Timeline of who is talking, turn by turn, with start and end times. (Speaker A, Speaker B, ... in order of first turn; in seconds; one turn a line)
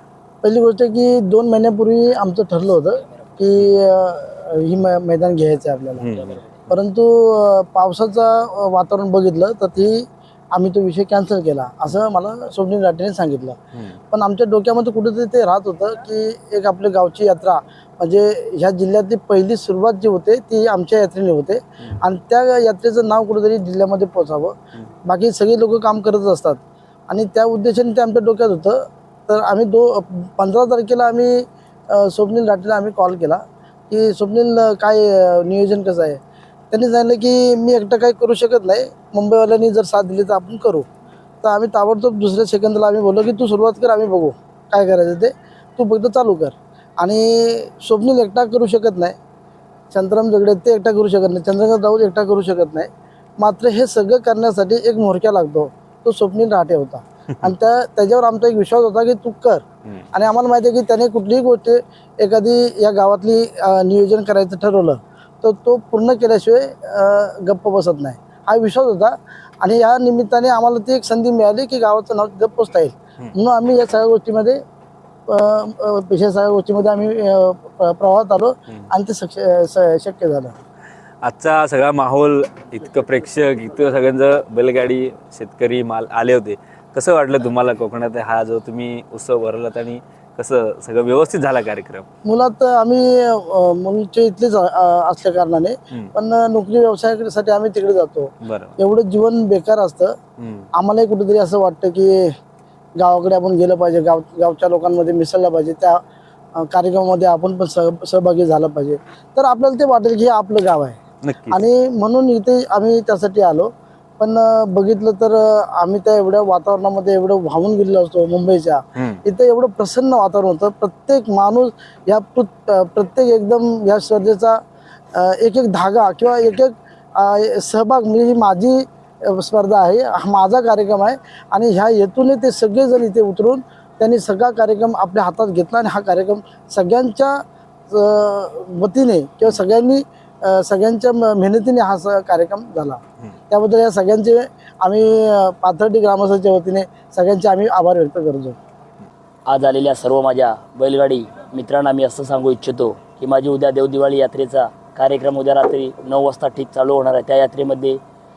Speaker A: 0.4-6.2
Speaker B: 6.0-6.4
Speaker A: 6.7-13.6
Speaker A: 14.1-36.2
Speaker A: 36.7-40.9
Speaker A: 41.4-49.2
Speaker A: 49.9-74.6
Speaker A: 75.3-80.5
Speaker B: 81.2-92.1
Speaker A: 92.3-100.1
Speaker B: 98.4-98.8
Speaker B: 100.4-100.7
Speaker A: 100.8-102.2
Speaker A: 103.0-106.0
Speaker A: 106.6-111.0
Speaker B: 111.2-111.6
Speaker A: 111.5-124.6
Speaker A: 125.1-137.4
Speaker A: 137.9-148.6
Speaker C: 149.5-158.0